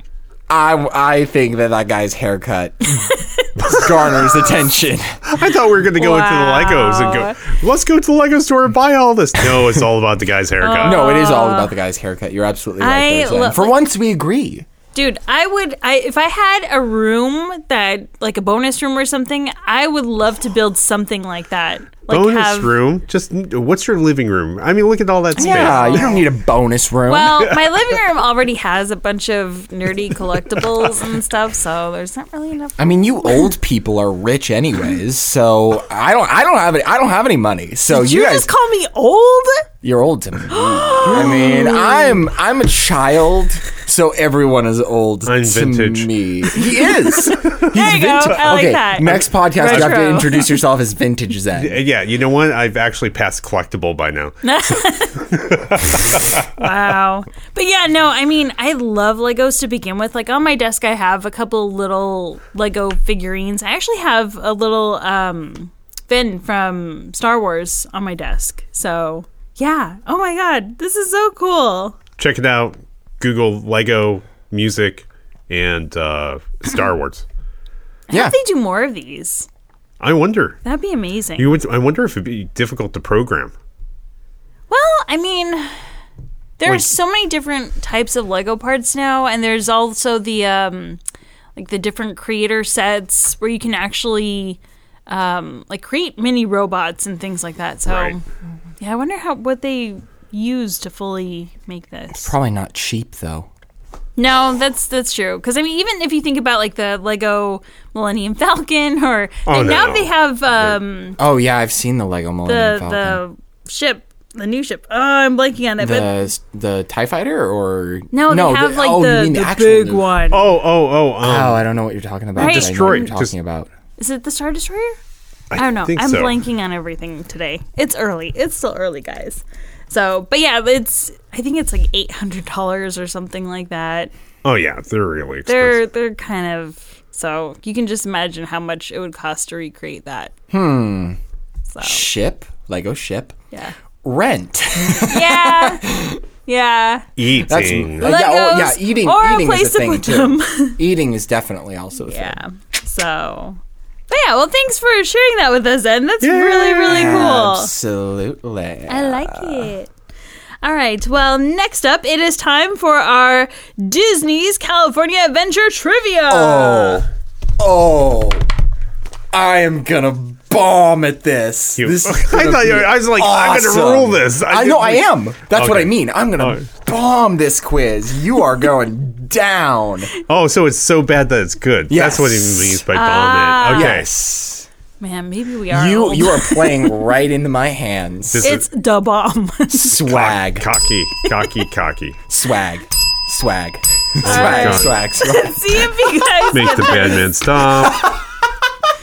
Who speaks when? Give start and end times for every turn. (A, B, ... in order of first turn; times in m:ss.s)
0:00.5-0:03.1 A
0:03.0-0:04.2 B
0:03.6-0:05.2 A
0:05.2-0:11.1 C
0:06.0-0:07.4 B
0:10.6-0:11.7 B
0:10.8-0:14.6 A
0:12.8-0:13.8 B
0:14.9-0:22.8 B
0:22.1-0:26.2 C
0:25.4-0:26.2 B
0:25.4-0:27.5 A
0:27.1-0:33.5 B
0:32.8-0:38.5 A
0:37.9-0:39.7 B
0:39.8-0:51.8 A
0:40.5-0:42.2 B
0:45.2-0:46.6 C
0:47.1-0:50.6 B
0:49.7-0:49.9 C
0:51.5-0:54.4 C
0:54.4-0:55.3 B
0:55.3-0:56.5 C
0:56.6-1:12.0 B
1:12.2-1:17.2 C
1:18.1-1:19.5 B
1:20.0-1:20.6 C
1:20.6-1:21.5 B
1:21.4-1:23.5 C
1:24.7-1:25.7 B
1:26.6-1:31.0 B
1:31.6-1:38.2 B
1:37.8-1:38.2 C
1:38.8-1:42.3 B
1:42.2-1:43.5 A
1:44.2-1:51.2 B
1:49.4-1:50.7 C
1:51.2-1:53.2 A
1:52.4-1:56.2 B
1:55.8-2:00.1 A
1:58.1-2:00.5 B
2:00.3-2:01.6 C
2:01.2-2:03.7 A
2:02.4-2:03.3 C
2:02.4-2:03.1 B
2:04.0-2:05.0 B
2:05.5-2:06.4 C
2:05.6-2:14.1 B
2:14.4-2:15.8 C
2:15.4-2:20.3 B
2:20.5-2:21.2 A
2:21.7-2:22.0 B
2:21.8-2:23.3 A
2:24.0-2:26.2 A
2:25.0-2:25.9 B
2:26.4-2:27.1 B
2:27.2-2:28.1 C
2:27.5-2:32.4 A
2:28.0-2:30.8 B
2:32.0-2:33.6 B
2:34.1-2:37.7 B
2:36.2-2:37.1 C
2:36.8-2:39.7 A
2:38.9-2:39.9 B
2:40.6-2:47.0 B
2:46.3-2:47.1 A
2:47.6-2:48.5 A
2:49.3-3:00.1 A
2:51.8-2:56.6 C
3:00.3-3:04.1 C
3:01.9-3:02.8 A
3:02.9-3:04.0 B
3:03.7-3:04.7 A
3:05.0-3:07.0 B
3:05.7-3:08.5 A
3:08.3-3:08.6 C
3:08.4-3:09.9 B
3:09.7-3:10.7 A
3:10.0-3:12.2 C
3:12.3-3:15.9 A
3:14.2-3:15.0 C
3:14.2-3:17.2 B
3:16.5-3:18.1 C
3:17.8-3:18.2 A